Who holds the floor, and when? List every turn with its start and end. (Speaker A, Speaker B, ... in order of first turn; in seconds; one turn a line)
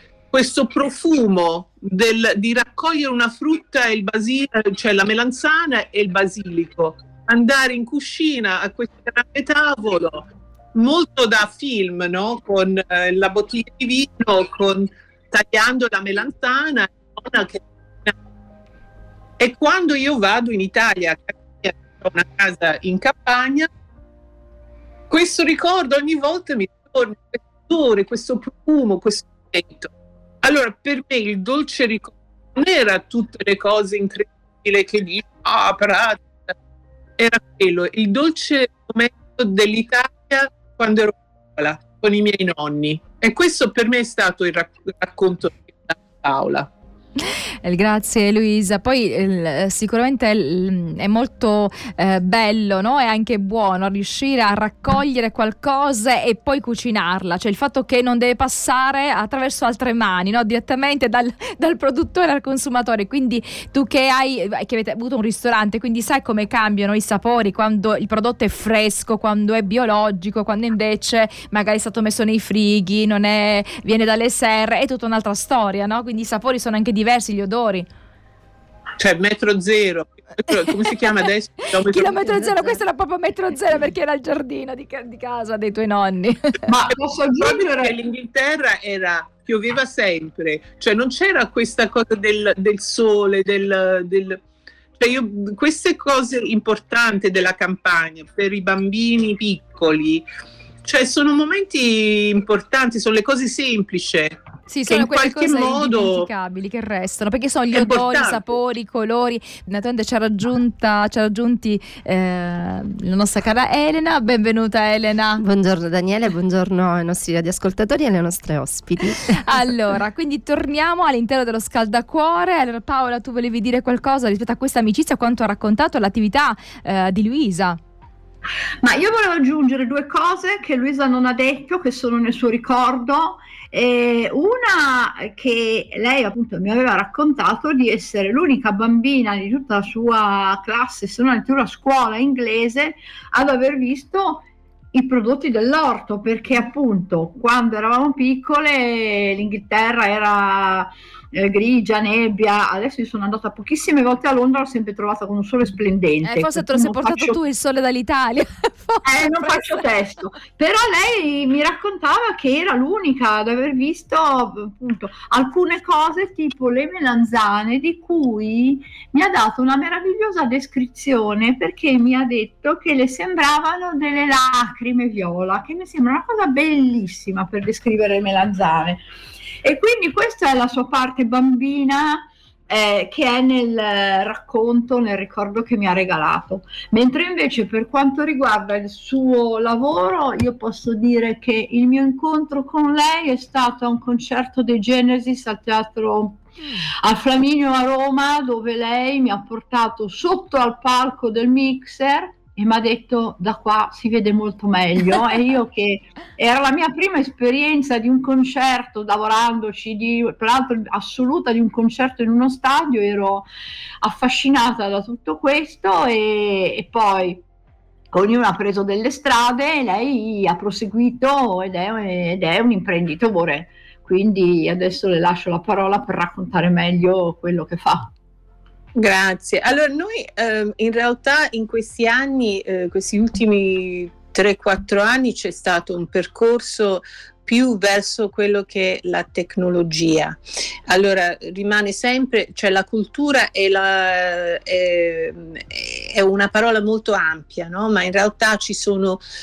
Speaker A: 0.3-18.1
Speaker A: 19.4-23.7
Speaker A: 25.1-29.9
Speaker A: 30.4-36.5
Speaker A: 37.2-46.7
Speaker B: 47.6-77.9
Speaker A: 79.0-82.8
Speaker B: 80.6-81.1
Speaker B: 81.8-86.3
Speaker C: 86.7-88.0
Speaker A: 87.4-94.4
Speaker A: 95.0-100.2
Speaker A: 100.8-106.3
Speaker B: 104.7-115.4
Speaker A: 107.7-108.4
Speaker D: 115.4-119.4
Speaker B: 119.3-127.8
Speaker C: 128.8-157.4
Speaker B: 156.2-159.8
Speaker C: 159.0-179.0
Speaker C: 179.6-196.4
Speaker C: 197.0-213.4
Speaker C: 214.0-217.4
Speaker C: 218.1-228.1
Speaker A: 229.0-240.4
Speaker A: 240.9-249.2